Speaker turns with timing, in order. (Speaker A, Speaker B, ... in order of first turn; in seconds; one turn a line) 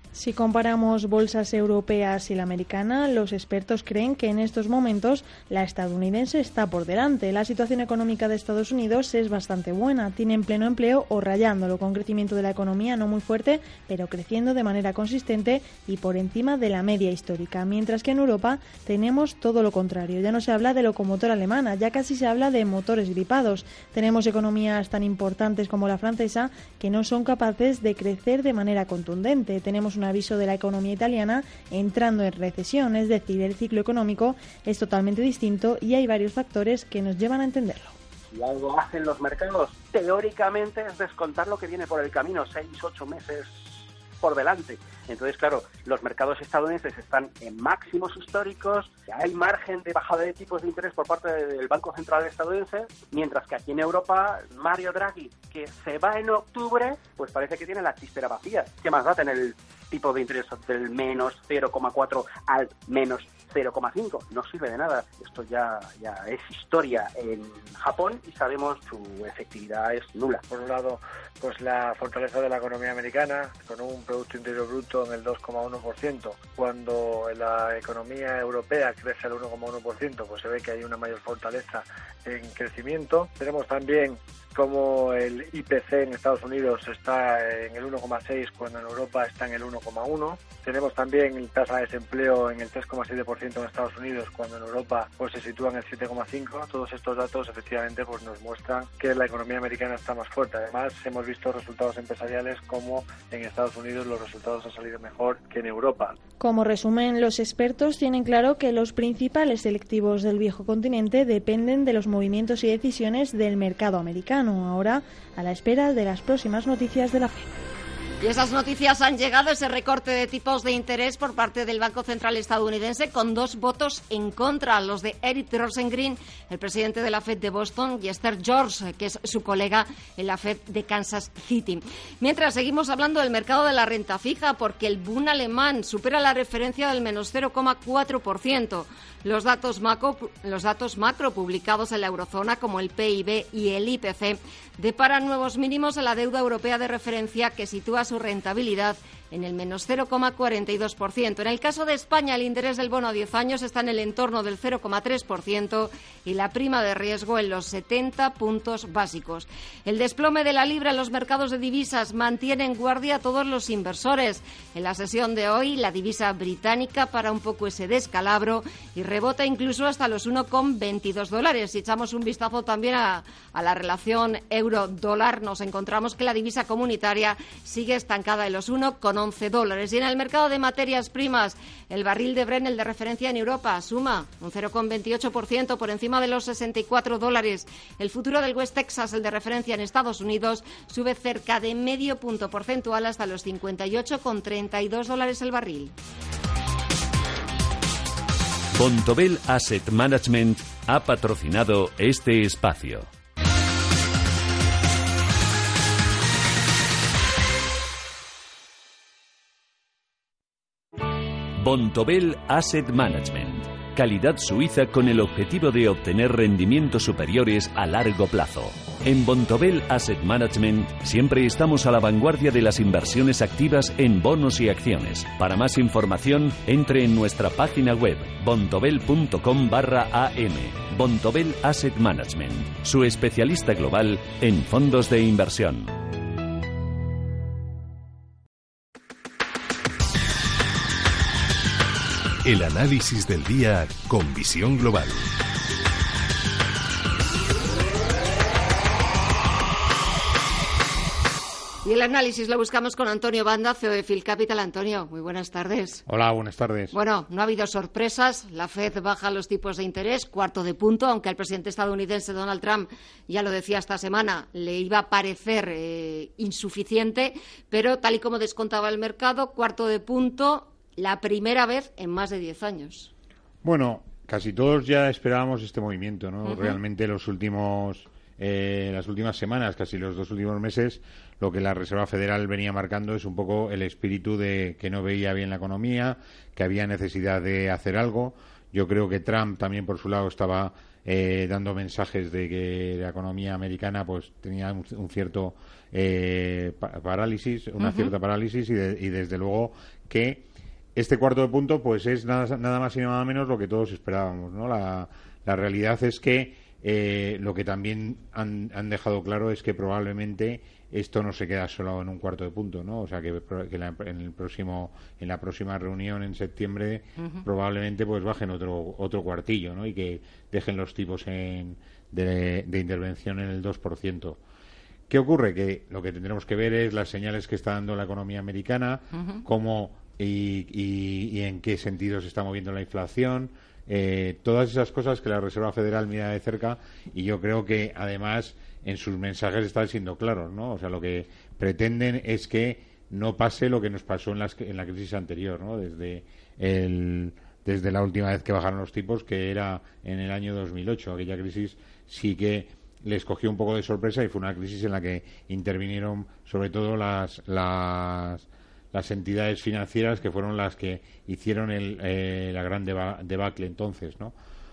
Speaker A: 0.1-37.9
Speaker B: 38.3-70.4
Speaker C: 70.5-106.2
Speaker A: 106.4-117.5
Speaker D: 118.2-195.9
Speaker E: 198.7-203.1
Speaker E: 211.6-235.9
Speaker F: 242.4-245.3
Speaker D: 251.8-256.0
Speaker G: 256.1-257.0
Speaker D: 256.9-273.1
Speaker G: 273.6-300.4
Speaker D: 276.4-276.8
Speaker D: 297.8-298.1
Speaker G: 300.9-324.4
Speaker G: 325.1-364.3
Speaker D: 329.1-329.4